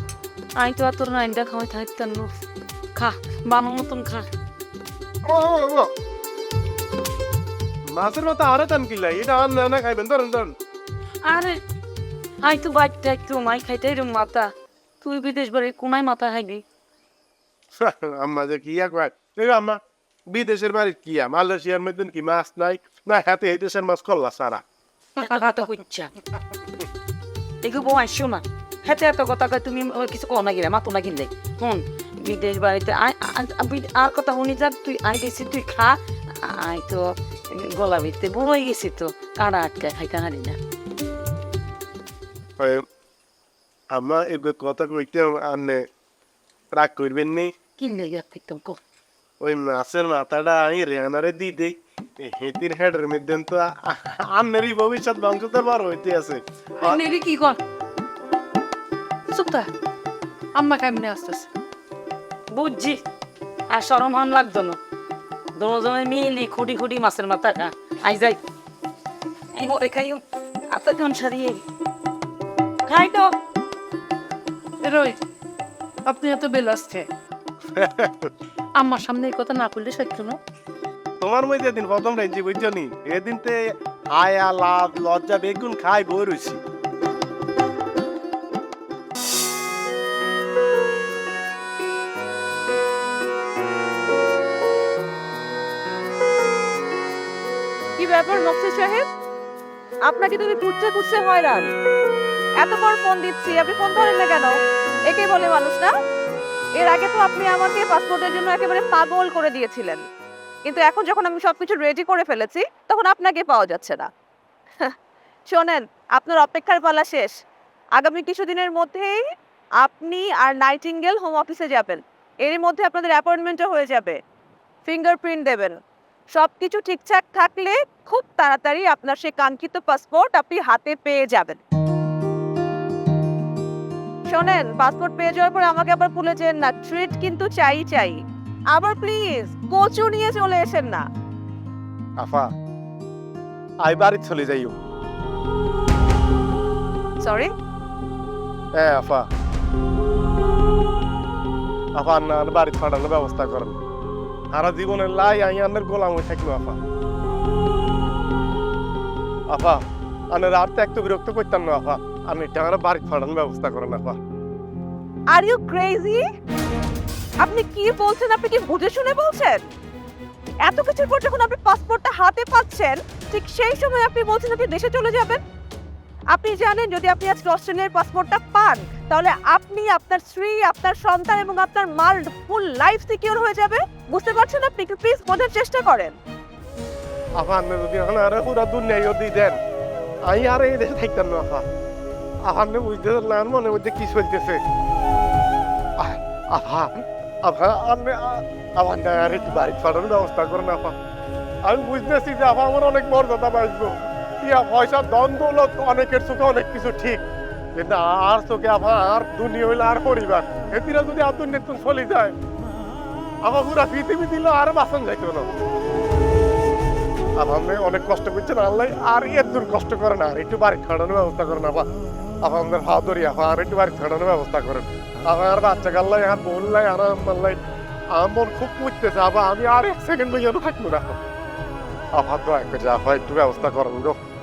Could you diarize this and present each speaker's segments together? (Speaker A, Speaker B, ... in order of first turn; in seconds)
Speaker A: 0.6-2.3, 2.9-4.3, 11.2-11.6, 12.4-16.6, 25.2-26.1, 27.6-40.6, 47.8-48.8, 62.5-63.0, 63.7-64.8, 65.5-68.4, 69.5-71.6, 72.8-73.3
Speaker B: 5.2-5.9, 7.9-10.5, 17.8-19.8, 20.3-24.6, 42.6-42.8, 43.9-45.8, 46.7-47.5, 49.4-57.0, 77.7-78.3, 81.2-83.6, 84.1-86.6, 142.2-142.5, 143.8-144.8, 148.7-149.2, 151.9-153.8, 154.5-156.8, 159.5-159.8, 160.3-164.2, 187.3-189.6, 190.2-191.7, 192.4-194.6, 196.0-200.9, 201.6-212.3, 213.4-215.5, 217.4-221.9, 222.4-227.6, 228.1-231.2, 232.1-234.2
Speaker C: 56.8-57.6, 59.3-59.7, 60.5-61.5, 74.8-75.2, 76.0-77.1, 78.8-80.4
Speaker D: 98.0-99.0, 100.1-101.7, 102.6-104.5, 105.1-105.9, 106.8-110.0, 110.6-114.1, 115.5-117.3, 118.0-119.2, 119.8-124.2, 124.8-125.8, 126.3-131.6, 134.3-138.2, 138.7-141.0, 147.2-147.5, 165.3-166.2, 167.4-169.6, 170.7-175.4, 176.3-186.1